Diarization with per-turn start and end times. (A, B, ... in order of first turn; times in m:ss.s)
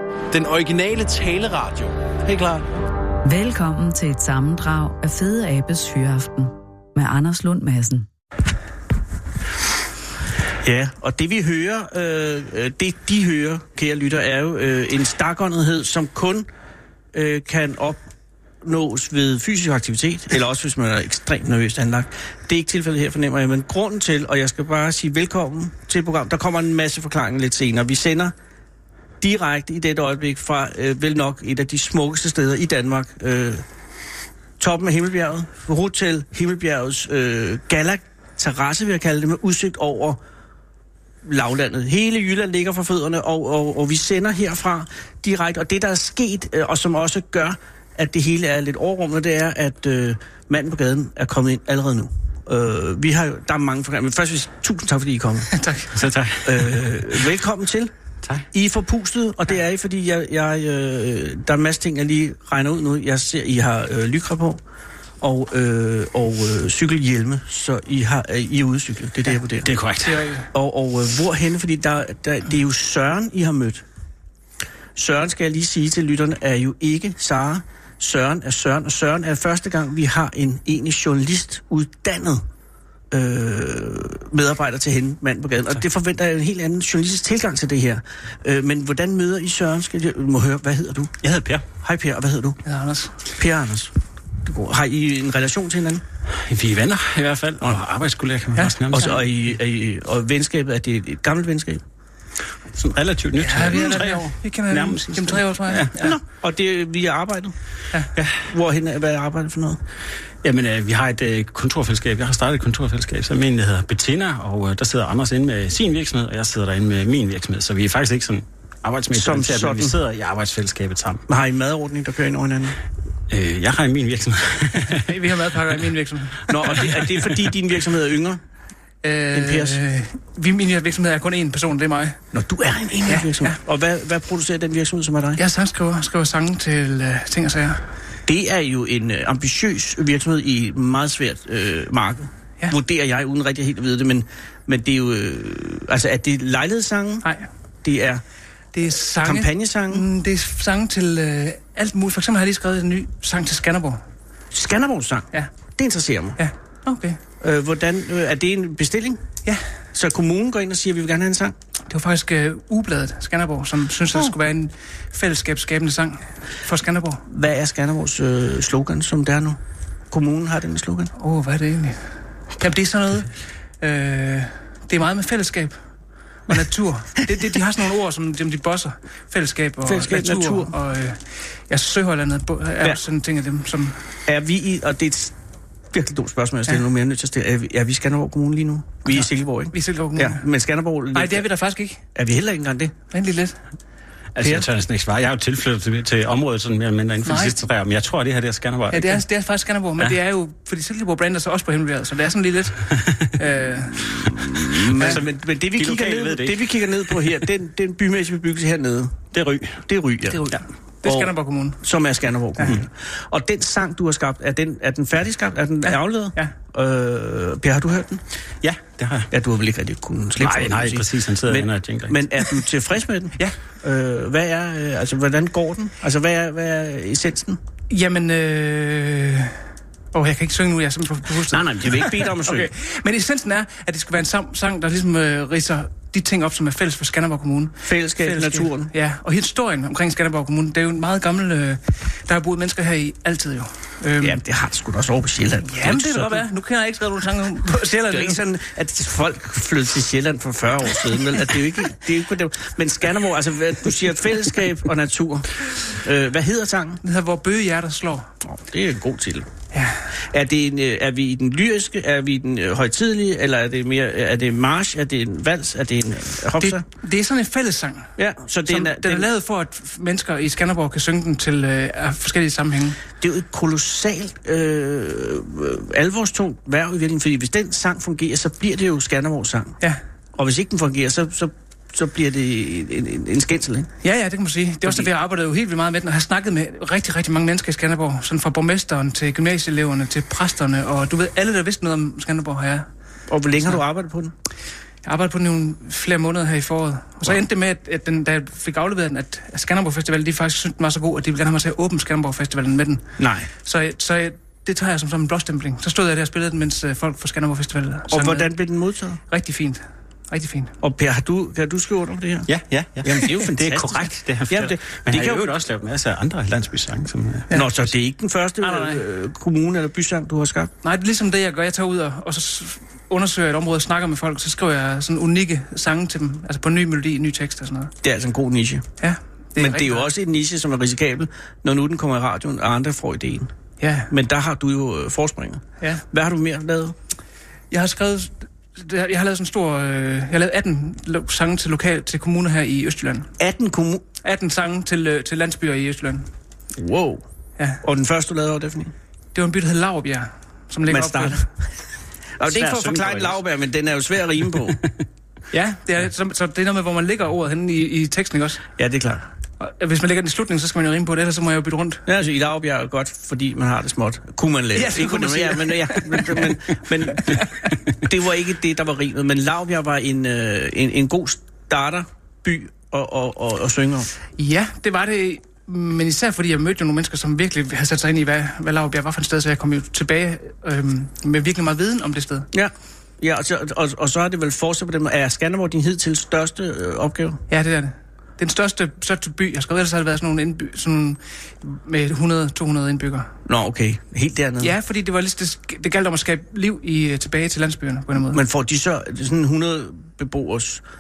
0:00.3-0:02.6 A
0:03.2-0:08.1 B
0:10.6-0:16.5 C
0:17.1-0:18.0 C
0:18.6-0:28.3 C
0:29.2-0:33.6 C
0:34.6-0:40.2 C
0:41.2-0:55.5 C
0:55.5-0:55.9 D
0:55.9-0:57.2 E
0:56.4-0:57.9 C
0:58.5-1:04.6 C
1:05.2-1:09.7 C
1:09.6-1:10.3 E
1:10.0-1:10.5 D
1:10.5-1:13.8 C
1:15.0-1:22.5 C
1:23.1-1:31.2 C
1:31.2-1:31.7 E
1:31.8-1:32.6 C
1:32.6-1:33.2 D
1:33.4-1:36.0 C
1:36.3-1:39.3 E
1:38.9-1:41.8 C
1:42.7-1:45.9 E
1:43.4-1:46.2 D
1:45.9-1:47.6 C
1:48.2-1:48.4 E
1:48.4-1:49.8 C
1:50.4-2:01.2 E
1:59.1-2:00.0 C
2:01.3-2:02.8 C
2:03.3-2:05.1 E
2:05.0-2:07.0 D
2:06.5-2:08.4 C
2:09.0-2:12.2 D
2:09.3-2:09.8 C
2:12.3-2:15.4 C
2:13.1-2:13.6 D
2:15.4-2:17.9 D
2:18.3-2:27.3 C
2:27.8-2:28.2 C
2:28.7-2:34.0 D
2:29.2-2:30.1 C
2:34.5-2:36.4 C
2:36.4-2:37.2 D
2:37.4-2:39.2 C
2:39.9-2:41.6 C
2:41.9-2:47.2 D
2:47.3-2:49.6 C
2:50.1-2:51.1 C
2:51.2-2:55.8 D
2:56.5-3:04.1 D
2:59.8-3:00.8 C
3:04.3-3:05.4 C
3:05.9-3:11.5 C
3:09.1-3:10.4 D
3:11.1-3:12.0 D
3:12.2-3:12.9 C
3:13.1-3:13.6 D
3:14.4-3:19.2 E
3:14.4-3:14.7 C
3:17.2-3:17.6 D
3:18.9-3:25.2 D
3:23.9-3:29.2 C
3:24.9-3:27.3 E
3:29.3-3:29.8 E
3:29.8-3:30.5 C
3:30.4-3:31.8 D
3:31.0-3:38.2 C
3:35.8-3:36.5 D
3:38.6-3:39.3 E
3:39.3-3:47.6 C
3:40.4-3:42.2 E
3:47.9-3:49.6 D
3:50.1-4:04.4 D
3:51.5-3:52.7 C
3:57.8-3:58.9 C
4:04.2-4:06.4 C
4:05.6-4:08.5 D
4:08.1-4:17.0 C
4:17.0-4:18.3 D
4:18.4-4:19.5 C
4:19.7-4:20.1 D
4:20.2-4:26.8 C
4:26.6-4:28.1 D
4:28.2-4:29.3 C
4:28.7-4:33.0 D
4:33.2-4:39.8 C
4:40.4-4:43.9 C
4:44.0-4:52.9 D
4:44.8-4:45.1 C
4:53.3-4:54.3 C
4:53.6-4:53.8 D
4:55.0-5:08.5 D
5:03.2-5:03.5 C
5:08.1-5:09.2 C
5:09.3-5:10.7 D
5:10.8-5:15.5 C
5:12.5-5:17.8 E
5:17.5-5:20.7 C
5:18.6-5:19.0 D
5:20.8-5:27.9 D
5:28.0-5:28.9 C
5:29.0-5:30.1 D
5:29.6-5:33.5 C
5:33.8-5:34.1 D
5:34.1-5:37.0 C
5:37.7-5:43.3 D
5:43.4-5:44.0 C
5:44.2-5:46.3 D
5:46.8-5:47.2 C
5:47.8-5:48.9 C
5:49.3-5:51.5 D
5:50.9-5:51.5 C
5:52.4-5:54.8 C
5:52.5-5:53.4 E
5:55.5-5:58.7 D
5:58.8-5:59.3 C
5:59.6-6:02.0 D
6:02.1-6:14.1 C
6:04.8-6:06.5 D
6:07.2-6:07.4 D
6:14.4-6:22.5 D
6:22.5-6:27.4 C
6:27.5-6:33.3 D
6:33.4-6:34.7 C
6:34.6-6:38.4 D
6:38.3-6:40.8 C